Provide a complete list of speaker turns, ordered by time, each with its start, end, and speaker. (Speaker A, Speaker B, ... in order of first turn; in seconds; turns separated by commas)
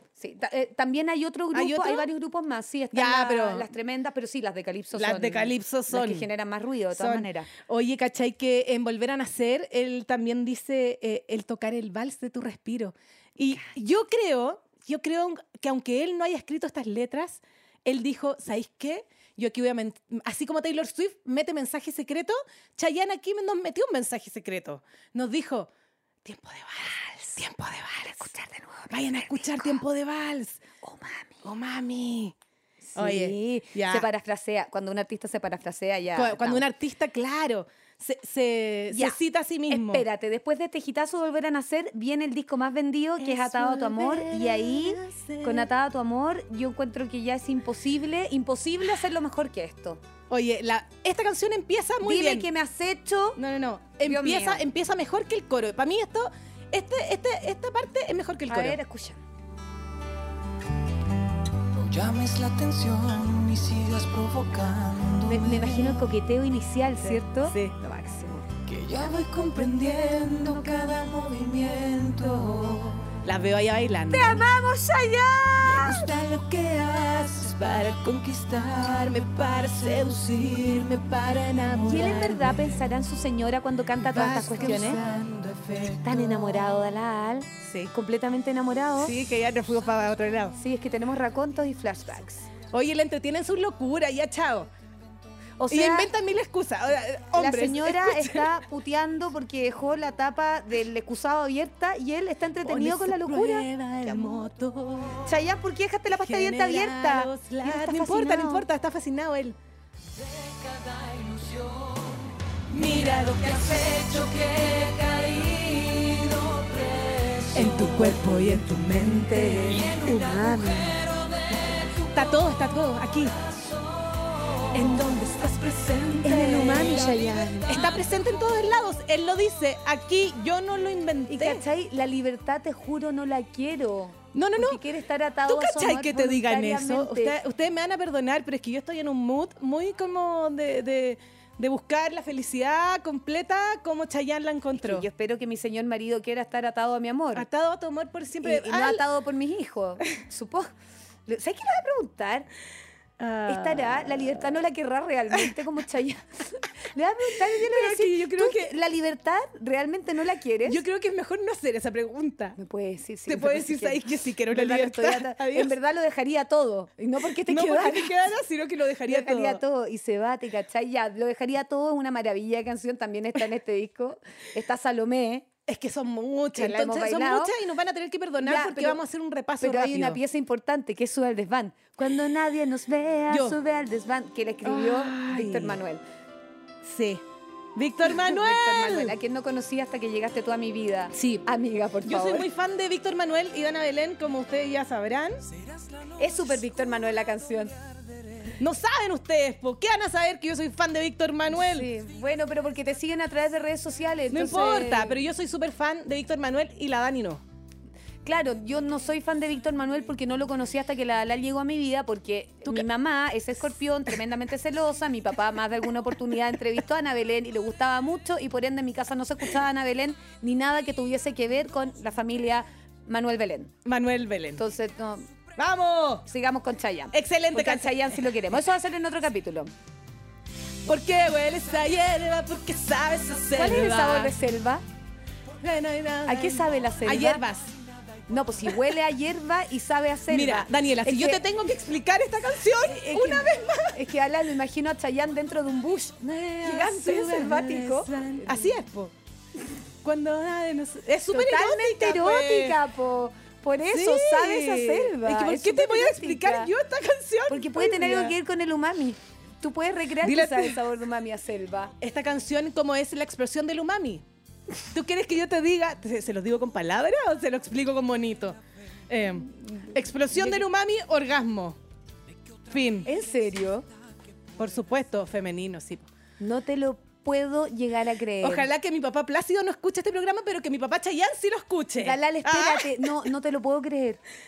Speaker A: 0.2-7.5, Speaker B: 1.5-2.1, Speaker B: 2.9-3.7, Speaker B: 4.9-6.3, Speaker B: 6.9-25.7, Speaker B: 26.2-28.3, Speaker A: 26.9-27.4, Speaker A: 28.1-29.8, Speaker B: 28.9-30.6, Speaker A: 30.8-31.4, Speaker B: 31.4-32.3, Speaker A: 32.8-36.6, Speaker B: 33.0-34.1, Speaker B: 36.1-40.0, Speaker A: 38.9-50.0, Speaker B: 43.2-45.7, Speaker B: 50.3-52.5, Speaker A: 52.0-53.4, Speaker B: 53.4-58.8, Speaker A: 54.0-54.6, Speaker A: 58.5-59.2, Speaker C: 61.7-66.0, Speaker A: 65.2-68.5, Speaker B: 67.1-67.7, Speaker C: 68.7-73.2, Speaker B: 73.2-74.5, Speaker A: 74.1-76.0, Speaker C: 75.6-82.7, Speaker A: 81.8-85.0, Speaker B: 81.8-82.3, Speaker B: 84.0-85.0, Speaker C: 84.3-86.3, Speaker A: 86.0-89.1, Speaker B: 87.6-87.9, Speaker B: 89.0-90.6, Speaker A: 90.6-92.5, Speaker B: 92.7-94.7, Speaker A: 95.6-96.1, Speaker B: 95.7-98.5, Speaker A: 97.3-103.7, Speaker B: 102.6-105.3, Speaker A: 105.2-108.6, Speaker B: 106.2-109.6, Speaker C: 110.1-122.2, Speaker B: 112.8-113.2, Speaker B: 117.5-119.9, Speaker A: 119.5-121.0, Speaker B: 122.1-123.3, Speaker C: 123.3-128.1, Speaker B: 124.7-125.5, Speaker B: 126.2-131.6, Speaker A: 126.2-127.7, Speaker A: 131.3-137.4, Speaker B: 134.3-134.8, Speaker B: 135.5-145.1, Speaker A: 144.8-147.5, Speaker B: 147.3-149.0, Speaker A: 148.4-150.7, Speaker A: 151.3-152.5, Speaker B: 153.2-154.0, Speaker A: 153.4-160.8, Speaker B: 157.4-158.7, Speaker B: 160.6-162.6, Speaker A: 162.6-168.3, Speaker B: 163.3-165.7, Speaker B: 167.4-169.6, Speaker A: 169.1-175.5, Speaker B: 175.7-180.2, Speaker A: 176.5-177.5, Speaker A: 178.4-179.0, Speaker A: 179.6-186.0, Speaker B: 183.3-183.6, Speaker B: 184.6-185.8, Speaker B: 186.8-187.2, Speaker B: 187.7-189.1, Speaker A: 188.0-192.5, Speaker B: 191.1-191.5, Speaker B: 192.0-195.4, Speaker A: 196.2-197.7, Speaker B: 198.6-201.9, Speaker A: 201.5-205.2, Speaker B: 204.3-207.4, Speaker A: 208.2-223.7, Speaker B: 223.8-224.6, Speaker A: 224.6-225.3, Speaker B: 225.6-226.2, Speaker A: 226.2-229.7, Speaker B: 227.1-228.2, Speaker B: 230.8-234.3, Speaker A: 233.5-234.8, Speaker B: 235.6-237.7, Speaker A: 236.2-237.4, Speaker A: 238.3-241.4, Speaker B: 240.3-244.0, Speaker A: 242.8-248.8, Speaker B: 246.6-249.1, Speaker B: 250.0-252.8, Speaker A: 251.3-256.7, Speaker B: 253.9-258.4, Speaker A: 257.5-261.9, Speaker B: 260.2-260.8, Speaker B: 262.0-264.2, Speaker B: 264.9-268.6, Speaker B: 269.1-271.8, Speaker A: 269.7-270.6, Speaker B: 272.7-273.1, Speaker A: 273.0-273.9, Speaker B: 274.6-276.1, Speaker A: 276.4-278.7, Speaker B: 278.4-283.3, Speaker A: 282.0-284.2